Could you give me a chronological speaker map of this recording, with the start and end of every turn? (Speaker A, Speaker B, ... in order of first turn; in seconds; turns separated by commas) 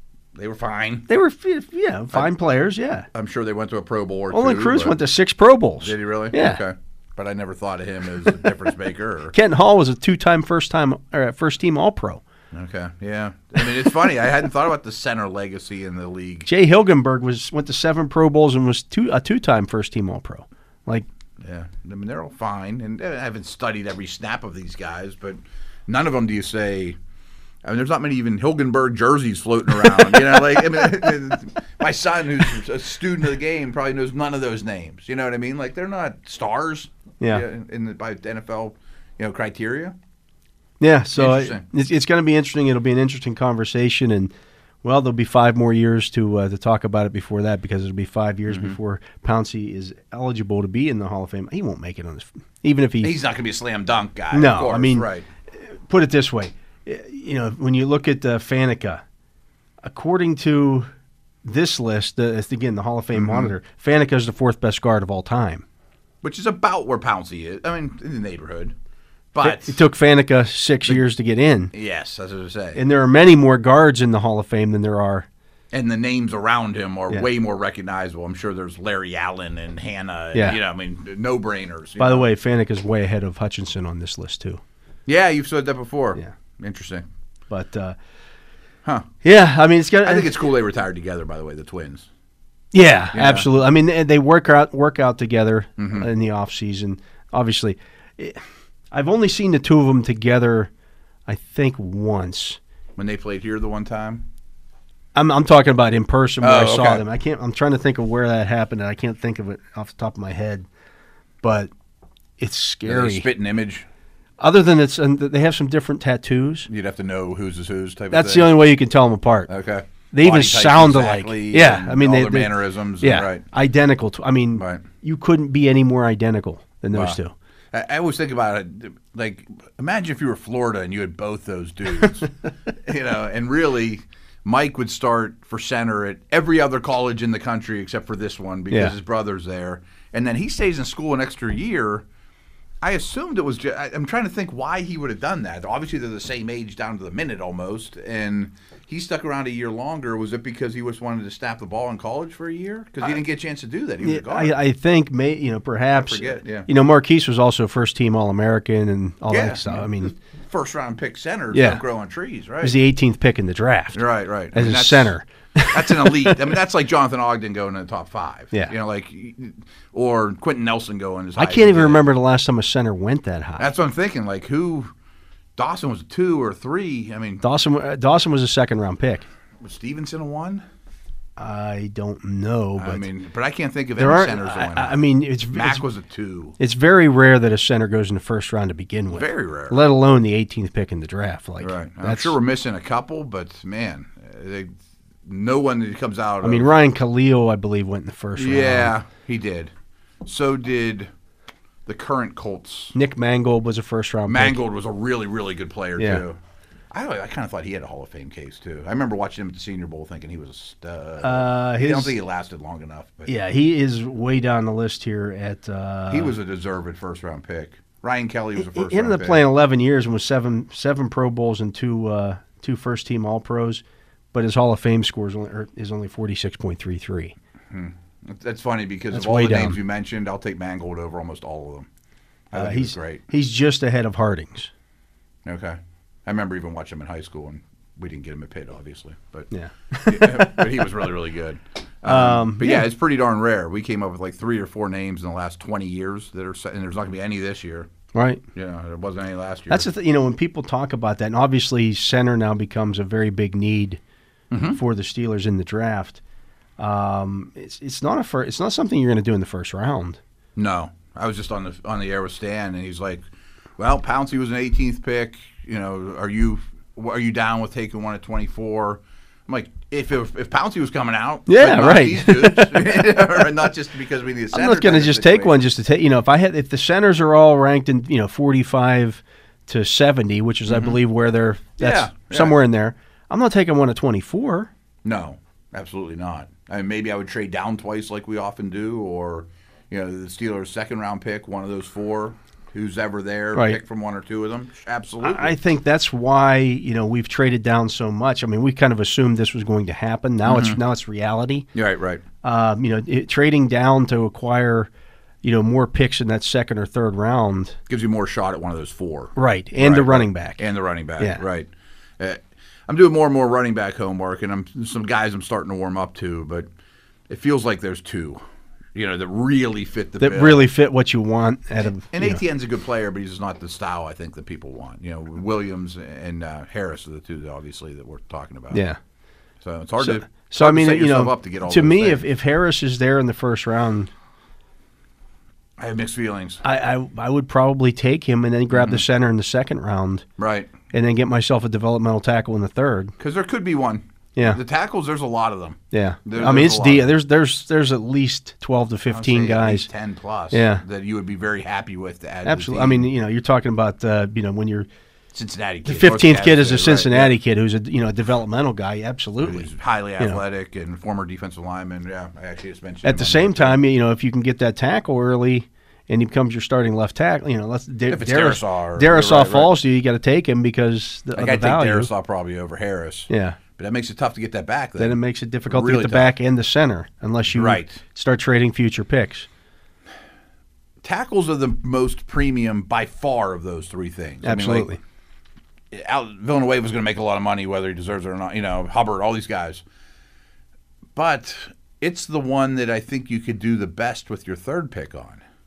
Speaker A: 0.3-1.1, Speaker B: 1.1-3.1, Speaker A: 3.1-5.0, Speaker B: 4.3-6.6, Speaker A: 5.8-9.3, Speaker B: 9.3-12.2, Speaker A: 12.5-16.5, Speaker B: 16.5-21.1, Speaker A: 21.4-27.0, Speaker A: 27.6-40.0, Speaker B: 40.8-44.3, Speaker A: 41.1-41.6, Speaker B: 44.8-53.1, Speaker A: 48.5-48.8, Speaker A: 53.0-55.3, Speaker B: 54.3-55.1, Speaker B: 55.6-59.0, Speaker B: 59.8-60.9, Speaker B: 61.4-65.7, Speaker A: 63.1-63.5, Speaker A: 66.2-68.8, Speaker A: 69.3-69.8, Speaker B: 69.4-71.7, Speaker A: 71.7-72.8, Speaker B: 72.8-75.3, Speaker A: 75.7-82.3, Speaker B: 80.3-80.6, Speaker B: 82.0-84.6, Speaker A: 85.1-87.0, Speaker B: 87.5-88.0, Speaker B: 89.2-90.3, Speaker A: 90.0-92.1, Speaker B: 92.7-100.7, Speaker A: 93.1-93.5, Speaker A: 95.8-96.1, Speaker B: 101.3-102.6, Speaker A: 103.0-104.2, Speaker B: 105.2-110.7, Speaker A: 106.4-107.0, Speaker B: 111.4-111.7, Speaker B: 112.4-113.3, Speaker A: 112.8-113.8, Speaker B: 114.4-116.7, Speaker A: 116.7-118.6, Speaker B: 118.1-119.5, Speaker A: 119.5-123.4, Speaker B: 120.1-127.3, Speaker A: 124.6-124.8, Speaker A: 126.9-127.2, Speaker A: 127.7-142.1, Speaker B: 138.7-139.0, Speaker A: 142.8-154.6, Speaker B: 154.0-160.1, Speaker A: 155.9-156.7, Speaker A: 159.3-162.8, Speaker B: 161.5-161.8, Speaker B: 162.6-164.0, Speaker A: 163.9-165.1, Speaker B: 164.5-166.4, Speaker A: 165.7-172.1, Speaker B: 171.4-173.7, Speaker A: 173.6-174.9, Speaker A: 175.6-177.4, Speaker B: 177.4-179.2, Speaker A: 179.6-180.6, Speaker B: 181.4-183.1, Speaker A: 182.8-186.6, Speaker B: 184.0-185.8, Speaker B: 186.6-192.4, Speaker A: 189.1-189.8, Speaker A: 191.6-194.7, Speaker A: 195.2-196.7, Speaker B: 196.4-198.9, Speaker A: 198.4-199.7, Speaker A: 200.2-201.1, Speaker A: 201.9-202.9, Speaker B: 202.9-204.6, Speaker A: 204.3-206.4, Speaker B: 206.0-206.2, Speaker A: 206.9-213.3, Speaker B: 211.2-212.2, Speaker B: 213.3-216.3, Speaker A: 216.1-219.4, Speaker B: 218.6-227.3, Speaker A: 227.7-231.9, Speaker B: 229.1-229.8, Speaker A: 232.5-233.2, Speaker B: 232.5-234.7, Speaker A: 235.4-239.5, Speaker B: 239.5-240.9, Speaker A: 240.1-247.9, Speaker B: 242.1-242.9, Speaker B: 248.1-248.4, Speaker A: 248.5-249.9, Speaker B: 249.7-254.0, Speaker A: 254.5-254.8, Speaker B: 254.7-256.2, Speaker B: 256.8-260.2, Speaker A: 260.6-263.2, Speaker A: 263.8-275.6, Speaker B: 271.5-273.4, Speaker B: 274.5-284.7, Speaker A: 280.7-281.0, Speaker A: 281.8-282.6, Speaker A: 285.0-295.6, Speaker B: 293.5-293.8, Speaker B: 295.2-301.7, Speaker A: 300.4-300.8, Speaker A: 301.8-302.2, Speaker B: 302.4-304.9, Speaker B: 305.4-307.8, Speaker A: 307.9-316.7, Speaker B: 309.4-310.6, Speaker A: 317.3-318.4, Speaker A: 318.9-320.7, Speaker B: 320.2-322.4, Speaker A: 321.9-328.8, Speaker B: 328.7-329.0, Speaker A: 329.6-332.2, Speaker B: 330.0-334.1, Speaker A: 335.8-336.6, Speaker B: 336.6-340.2, Speaker A: 338.7-339.0, Speaker A: 340.4-340.7, Speaker B: 340.9-343.1, Speaker A: 343.2-347.1, Speaker B: 345.9-349.9, Speaker A: 349.1-353.1, Speaker B: 350.5-350.8, Speaker B: 352.4-354.9, Speaker A: 355.3-357.4, Speaker B: 355.9-359.7, Speaker A: 359.4-363.8, Speaker B: 363.0-372.1, Speaker A: 368.1-369.7, Speaker A: 371.4-376.3, Speaker B: 373.3-373.6, Speaker B: 375.0-379.5, Speaker A: 377.5-378.0, Speaker A: 381.0-384.9, Speaker B: 384.4-385.0, Speaker A: 385.9-389.8, Speaker A: 391.1-395.4